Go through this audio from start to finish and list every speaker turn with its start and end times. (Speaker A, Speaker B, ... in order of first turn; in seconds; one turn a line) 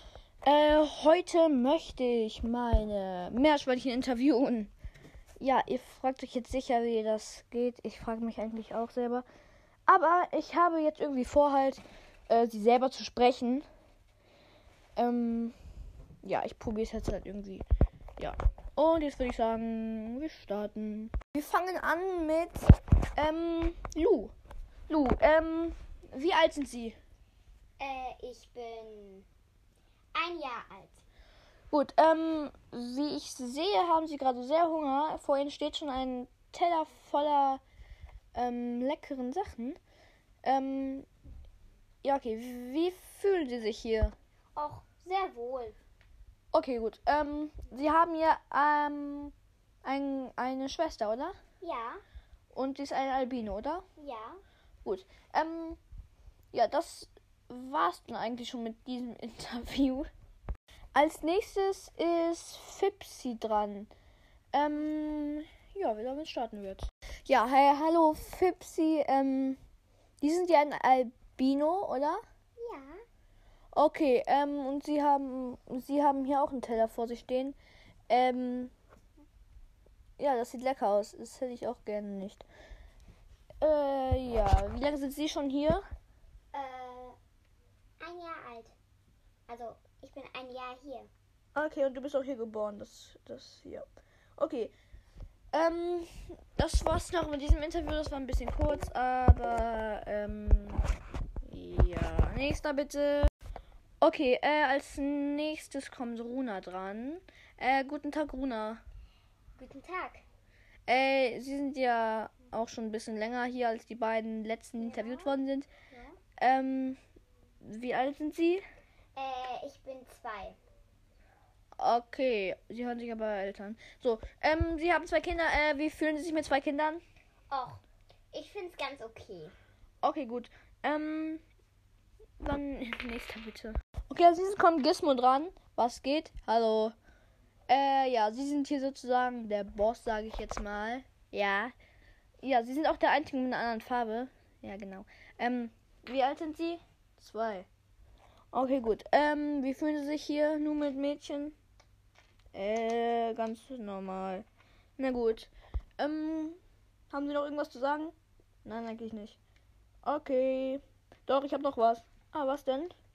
Speaker A: 0.5-4.7
Speaker A: 5.4-9.2
Speaker A: 9.9-13.7
Speaker A: 15.0-15.6
Speaker A: 16.2-17.6
Speaker A: 18.2-24.3
Speaker A: 24.9-27.0
Speaker B: 27.8-29.3
Speaker B: 30.1-31.0
Speaker A: 31.7-37.6
Speaker A: 38.3-39.8
Speaker A: 40.4-41.1
Speaker A: 42.0-44.1
Speaker B: 44.5-45.8
Speaker A: 46.5-49.3
Speaker A: 49.8-51.4
Speaker B: 51.6-52.0
Speaker A: 52.5-53.9
Speaker B: 54.0-54.4
Speaker A: 54.8-55.8
Speaker A: 56.5-60.1
Speaker A: 61.0-63.9
Speaker A: 64.5-69.6
Speaker A: 70.2-72.2
Speaker B: 72.6-73.0
Speaker A: 73.7-77.6
Speaker A: 78.1-78.7
Speaker A: 80.2-82.5
Speaker A: 83.6-85.8
Speaker B: 86.5-87.2
Speaker B: 88.0-88.7
Speaker B: 89.5-91.1
Speaker A: 91.5-93.9
Speaker A: 94.4-94.7
Speaker A: 95.5-100.8
Speaker A: 101.4-103.3
Speaker A: 104.0-108.8
Speaker B: 109.6-110.2
Speaker A: 110.9-115.7
Speaker B: 114.8-115.4
Speaker B: 115.9-116.2
Speaker A: 116.4-117.0
Speaker A: 117.6-118.6
Speaker B: 119.2-120.6
Speaker A: 121.8-127.0
Speaker B: 127.5-129.6
Speaker A: 130.0-131.4
Speaker A: 132.4-136.9
Speaker A: 137.7-141.7
Speaker A: 142.4-147.7
Speaker A: 148.5-151.6
Speaker A: 152.5-154.5
Speaker A: 155.0-156.6
Speaker A: 157.1-159.4
Speaker A: 160.1-162.9